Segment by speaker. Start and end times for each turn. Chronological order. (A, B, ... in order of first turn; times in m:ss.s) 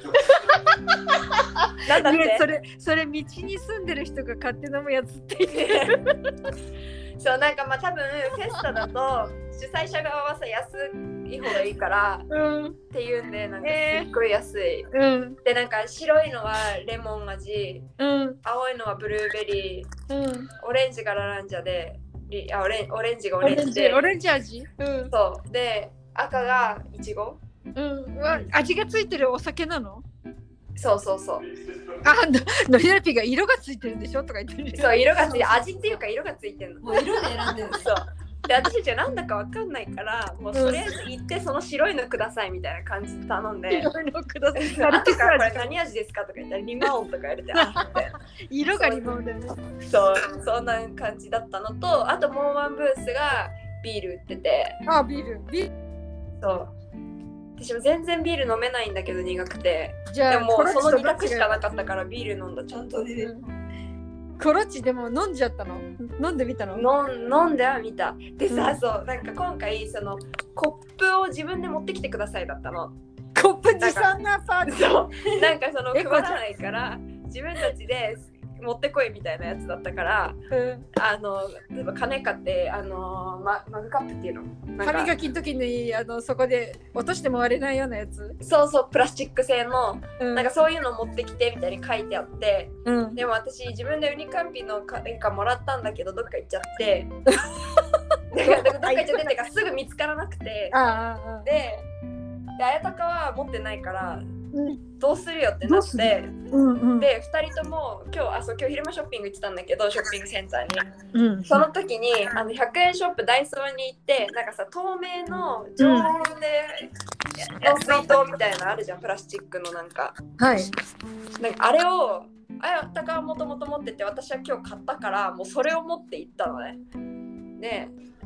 0:00.3-0:06.3 A
0:01.8-0:02.5 B
0:05.5-0:06.0 B
0:07.2-0:12.2 B
0:12.3-0:12.8 A
0:12.9-0:14.9 B
0:13.6-0:14.1 A
0:14.9-0:15.4 A
0:15.4-0:17.9 B
0:18.0-0:18.4 A
0:18.4-0:19.9 B
0:20.1-0:20.5 A
0:20.6-0:24.1 B
0:23.4-0:25.1 A
0:25.1-0:27.4 B
0:27.8-0:30.0 A
0:30.8-0:31.5 B
0:32.0-0:35.0 A
0:34.7-0:37.0 B
0:35.1-0:35.7 C
0:36.8-0:37.8 C
0:37.7-0:43.9 B
0:40.5-0:40.8 A
0:43.7-0:45.6 A
0:44.5-0:48.1 B
0:47.5-0:49.6 A
0:48.7-0:49.2 B
0:49.8-0:54.8 B
0:54.8-0:55.7 A
0:56.4-0:56.7 B
0:57.6-1:03.1 B
1:00.1-1:01.6 A
1:02.7-1:03.3 C
1:03.2-1:03.4 A
1:04.4-1:06.8 A
1:06.7-1:13.0 B
1:08.5-1:08.8 A
1:13.4-1:15.4 A
1:13.8-1:14.1 B
1:14.6-1:20.4 B
1:15.9-1:16.4 A
1:20.5-1:20.8 A
1:20.9-1:25.1 B
1:24.8-1:28.4 A
1:28.4-1:37.1 B
1:30.2-1:30.5 A
1:32.8-1:33.2 A
1:37.3-1:37.8 A
1:38.3-1:40.8 B
1:38.4-1:39.4 A
1:40.7-1:41.5 A
1:41.4-1:41.9 B
1:42.6-1:44.2 B
1:44.5-1:44.8 A
1:45.0-1:46.3 B
1:45.7-1:47.1 A
1:47.0-1:50.9 B
1:51.1-1:51.6 A
1:51.4-1:56.9 B
1:55.8-1:56.1 A
1:57.6-2:00.2 B
1:57.6-1:58.1 A
2:00.4-2:00.7 A
2:01.4-2:06.8 B
2:07.6-2:07.9 B